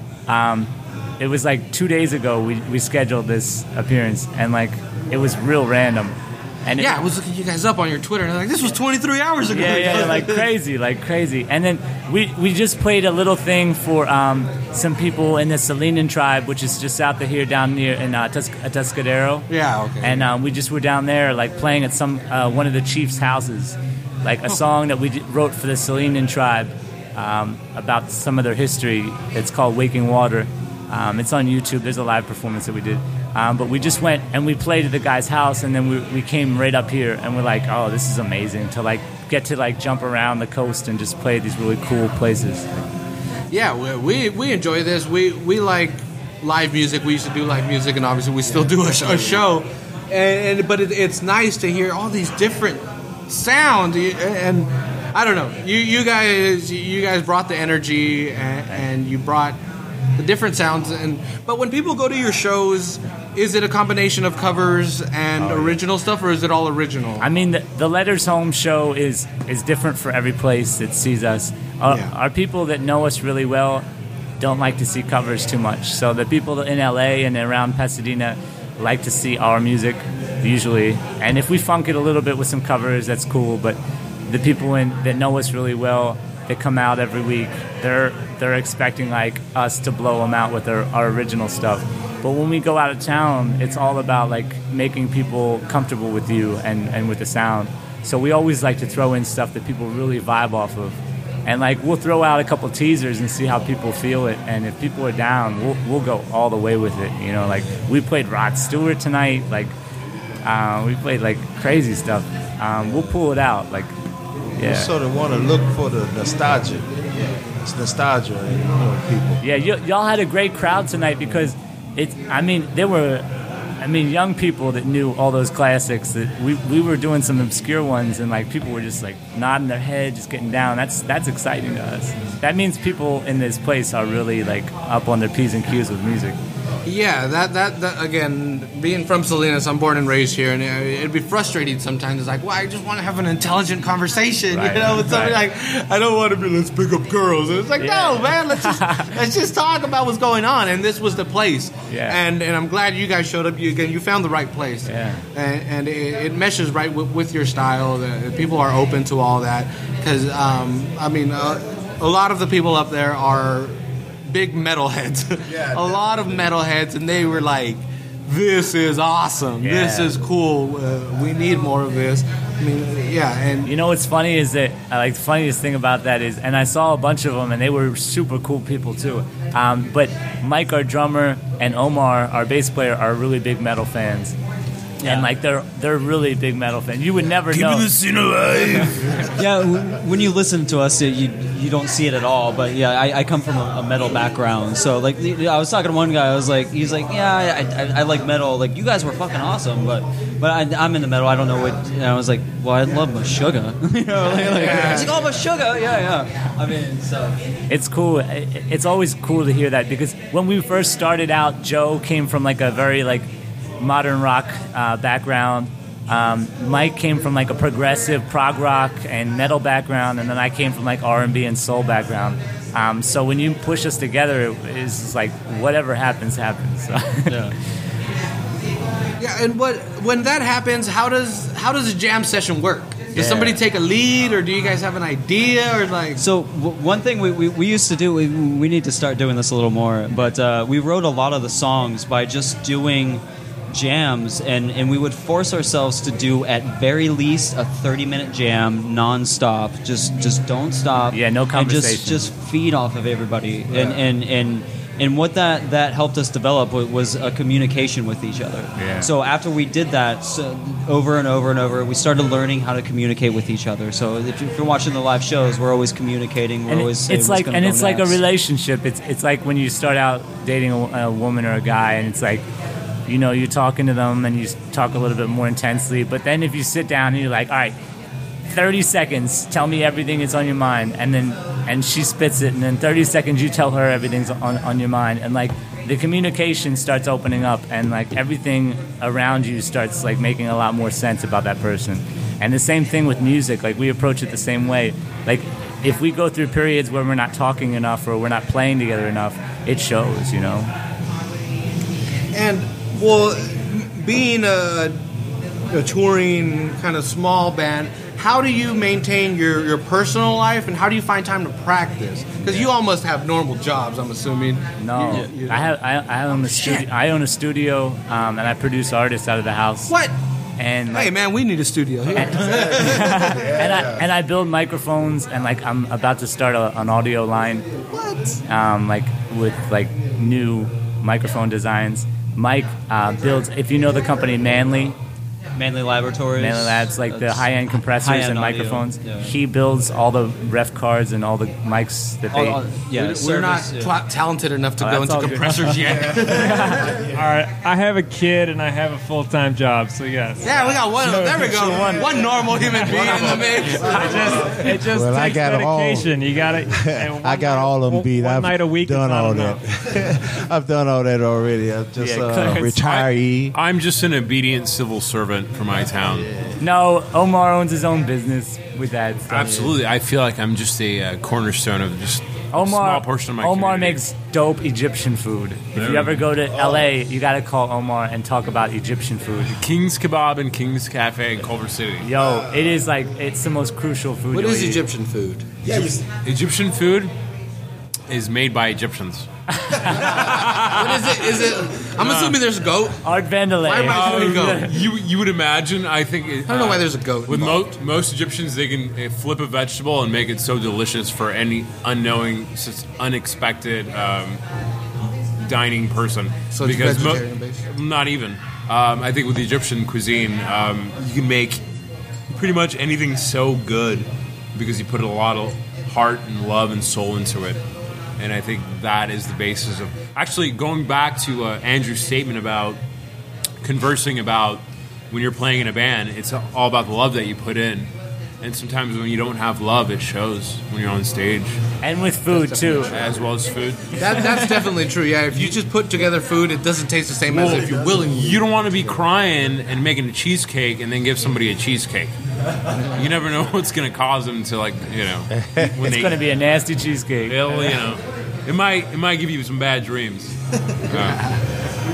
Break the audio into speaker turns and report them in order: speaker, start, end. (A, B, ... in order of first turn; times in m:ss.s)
0:00.3-0:07.0 A
0:06.8-0:10.5 B
0:09.5-0:19.5 A
0:19.5-0:20.3 B
0:20.0-0:42.7 A
0:43.5-0:59.6 B
1:00.2-1:07.3 B
1:05.4-1:05.8 A
1:07.2-1:13.9 A
1:11.9-1:12.1 B
1:14.4-1:49.8 A
1:50.4-1:53.9 A
1:54.6-1:56.9 C
1:54.6-1:54.9 A
1:57.6-1:59.4 C
1:59.4-2:03.3 A
2:03.8-2:16.4 A
2:16.8-2:53.7 B
2:24.5-2:25.4 A
2:27.8-2:29.1 A
2:31.9-2:32.2 A
2:34.9-2:35.2 A
2:45.5-2:46.5 D
2:49.6-2:50.2 A
2:53.6-3:04.4 A
3:05.0-3:05.3 E
3:05.0-3:08.0 A
3:07.6-3:09.1 C
3:09.3-3:27.4 E
3:24.3-3:25.3 B
3:27.7-3:47.5 A
3:47.3-3:47.5 E
3:49.2-3:56.2 B
3:53.2-3:53.6 A
3:56.2-4:28.2 E
4:11.1-4:12.3 A
4:18.8-4:19.1 A
4:26.7-4:32.5 A
4:33.1-4:37.8 A
4:38.5-5:00.7 A
5:02.3-5:05.0 B
5:05.7-5:15.7 B
5:12.4-5:12.7 A
5:14.8-5:19.9 A
5:16.3-5:16.9 B
5:19.9-5:20.1 B
5:20.6-5:21.1 A
5:20.9-5:23.5 B
5:22.2-5:27.6 A
5:22.2-5:24.1 D
5:27.9-5:28.4 B
5:28.4-5:35.0 A
5:35.6-5:39.3 E
5:36.4-5:42.6 A
5:42.3-5:44.0 E
5:42.9-5:46.9 B
5:44.8-5:46.8 A
5:45.8-5:47.4 D
5:46.7-5:51.1 F
5:50.4-5:54.6 B
5:51.1-5:51.8 C
5:51.5-5:54.9 D
5:52.9-5:59.6 F
5:54.6-5:54.9 A
5:54.8-6:03.6 C
6:02.0-6:02.9 A
6:02.8-6:06.3 G
6:06.0-6:06.6 C
6:06.6-6:09.6 A
6:09.3-6:14.0 G
6:09.4-6:09.7 C
6:12.5-6:19.6 A
6:15.8-6:16.3 G
6:16.5-6:16.9 D
6:19.5-6:22.1 G
6:22.0-6:24.8 A
6:22.1-6:22.8 D
6:24.3-6:25.7 B
6:25.6-6:26.0 D
6:26.2-6:27.1 G
6:28.1-6:32.4 G
6:29.6-6:30.1 A
6:30.1-6:33.0 B
6:33.0-6:34.8 A
6:33.6-6:34.8 B
6:33.8-6:44.4 G
6:36.5-6:37.7 B
6:45.4-6:51.6 G
6:46.5-6:47.6 B
6:52.3-6:57.6 G
6:58.2-7:02.8 G
7:03.6-7:07.9 G
7:08.4-7:11.6 G
7:11.8-7:13.0 A
7:12.3-7:13.2 B
7:12.9-7:14.5 G
7:14.0-7:18.4 B
7:17.3-7:18.4 D
7:18.1-7:22.1 G
7:22.8-7:26.2 G
7:25.7-7:27.4 A
7:27.3-7:30.4 G
7:30.9-7:31.2 G
7:30.9-7:31.4 B